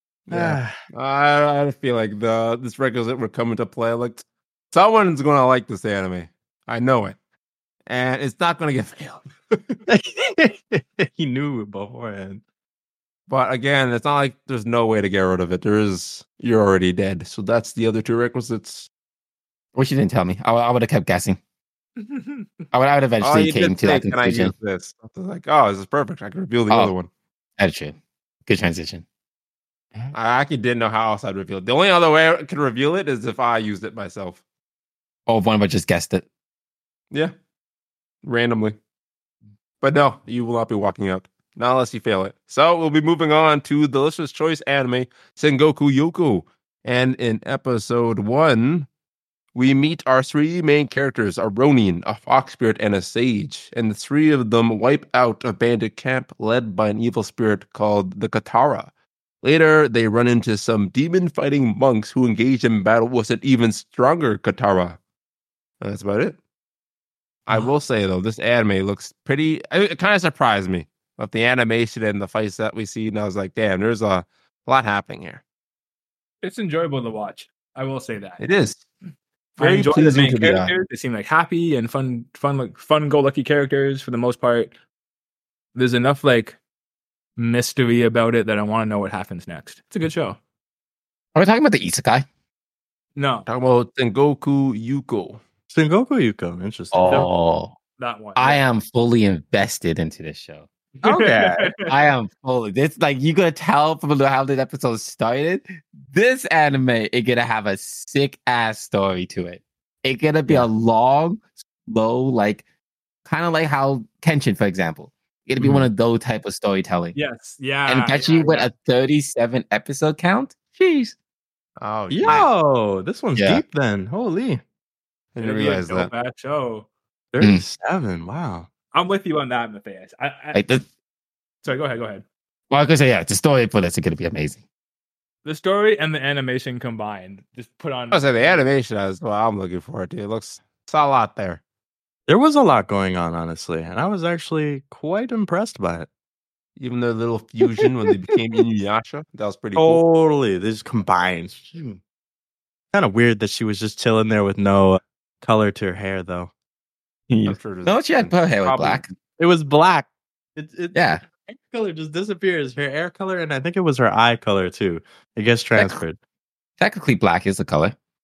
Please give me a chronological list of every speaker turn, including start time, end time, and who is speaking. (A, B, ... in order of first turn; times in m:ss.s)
0:00.3-0:00.7 A
0:00.3-0:07.2 B
0:07.8-0:09.8 B
0:09.9-0:12.4 A
0:13.3-0:18.9 B
0:19.7-0:21.4 C
0:22.0-0:22.5 D
0:22.7-0:24.5 C
0:23.2-0:27.1 B
0:27.6-0:27.9 C
0:28.5-0:29.0 C
0:30.1-0:34.4 B
0:35.3-0:36.2 C
0:38.2-0:38.8 B
0:39.8-0:48.9 B
0:49.5-0:58.9 B
0:59.4-1:05.0 B
1:05.8-1:06.4 B
1:07.5-1:15.4 B
1:16.4-1:18.4 D
1:18.4-1:18.8 B
1:19.6-1:20.7 B
1:19.6-1:24.7 D
1:25.7-1:26.6 D
1:27.4-1:30.4 D
1:31.3-1:32.2 C
1:33.2-1:33.5 D
1:33.5-1:35.4 B
1:35.7-1:37.3 A
1:36.9-1:37.7 C
1:38.0-1:38.6 D
1:38.4-1:40.6 C
1:41.0-1:41.7 A
1:41.0-1:41.7 D
1:41.8-1:52.6 C
1:53.2-1:57.2 C
1:55.6-1:55.9 A
1:57.1-1:58.7 D
1:57.9-2:01.1 C
2:01.8-2:02.5 B
2:02.1-2:04.6 A
2:03.4-2:03.6 C
2:05.3-2:06.1 B
2:05.4-2:06.9 D
2:07.3-2:08.7 A
2:08.9-2:10.6 D
2:10.5-2:10.8 C
2:11.6-2:12.2 D
2:12.7-2:14.6 C
2:15.4-2:18.6 D
2:18.1-2:21.6 B
2:22.3-2:26.1 A
2:26.8-2:30.0 B
2:29.8-2:32.0 A
2:32.9-2:36.5 A
2:37.3-2:39.1 C
2:37.4-2:39.1 B
2:39.4-2:46.2 A
2:40.9-2:41.2 C
2:45.7-2:46.0 C
2:46.8-2:47.9 C